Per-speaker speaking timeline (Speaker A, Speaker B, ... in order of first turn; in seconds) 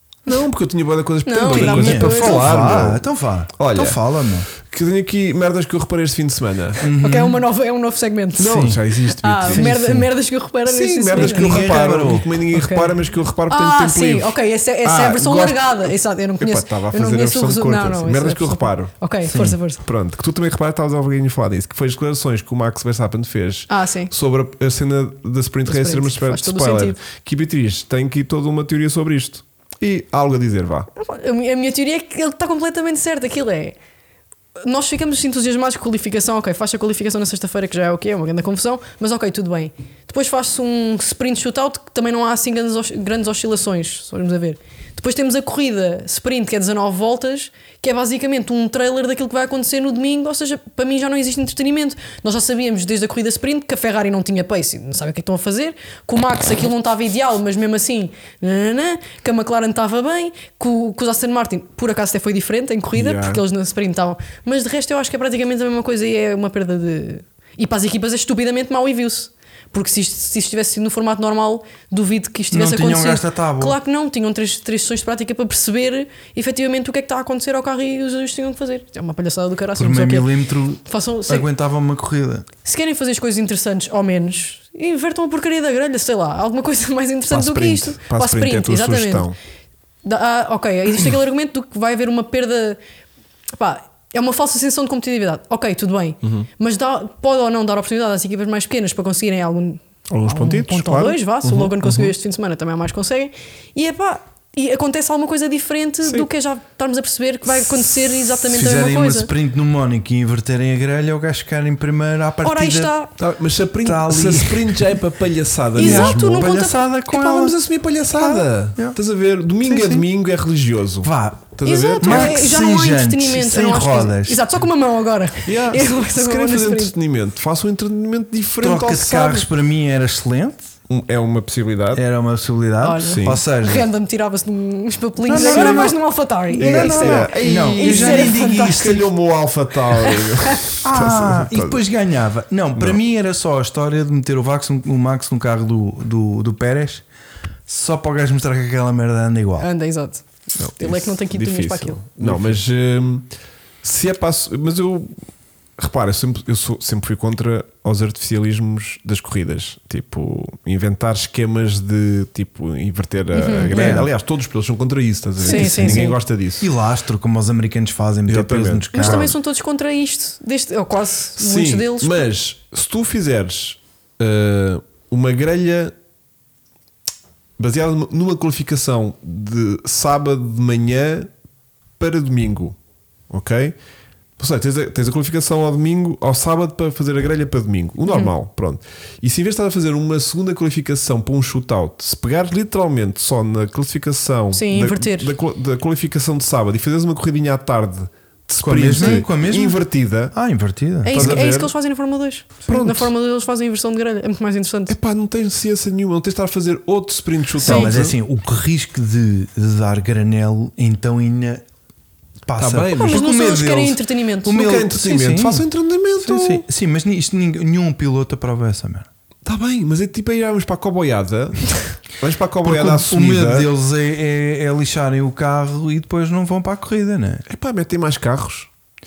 Speaker A: 0.2-3.0, 3.6-6.8, 8.4-9.7, 10.7-30.9, 62.9-63.4, 87.3-89.3, 96.2-96.5, 100.1-102.1, 113.2-122.5, 125.4-129.4, 130.9-132.0, 133.1-133.4, 135.3-135.9, 136.6-141.8, 150.6-153.3, 153.8-155.1, 155.8-166.7, 168.3-169.3, 171.4-175.9, 177.6-181.3, 182.0-182.8, 183.3-183.8, 184.4-200.3, 201.1-201.7, 202.7-203.1, 204.9-208.1, 212.5-216.6, 219.4-223.7, 227.5-228.7
Speaker B: 1.2-2.8, 7.0-12.9, 13.5-19.8, 23.7-24.1, 25.6-27.0, 30.9-33.8, 34.6-81.5, 82.6-89.3, 90.0-92.8, 93.5-109.3, 112.4-113.1, 115.7-116.9, 119.7-120.0, 121.6-126.9, 132.8-139.0, 140.0-140.6, 149.6-152.0, 163.3-164.0, 165.4-166.2, 168.9-172.2, 194.5-195.3, 201.0-204.9, 207.6-207.9, 212.9-214.7
Speaker C: 1.4-4.5, 6.8-7.4, 8.4-8.8, 9.4-10.1, 11.1-12.3, 72.5-73.8, 79.8-82.5, 108.3-112.9, 113.8-115.0, 115.8-117.6, 121.0-124.5, 128.6-130.7, 131.9-133.9, 135.3-136.0, 136.6-139.0, 140.8-147.0, 147.7-149.7, 152.2-152.6, 163.7-164.1, 165.4-169.3, 198.6-201.4, 207.6-211.6, 212.5-213.9, 214.4-215.7, 216.2-219.1, 222.6-227.4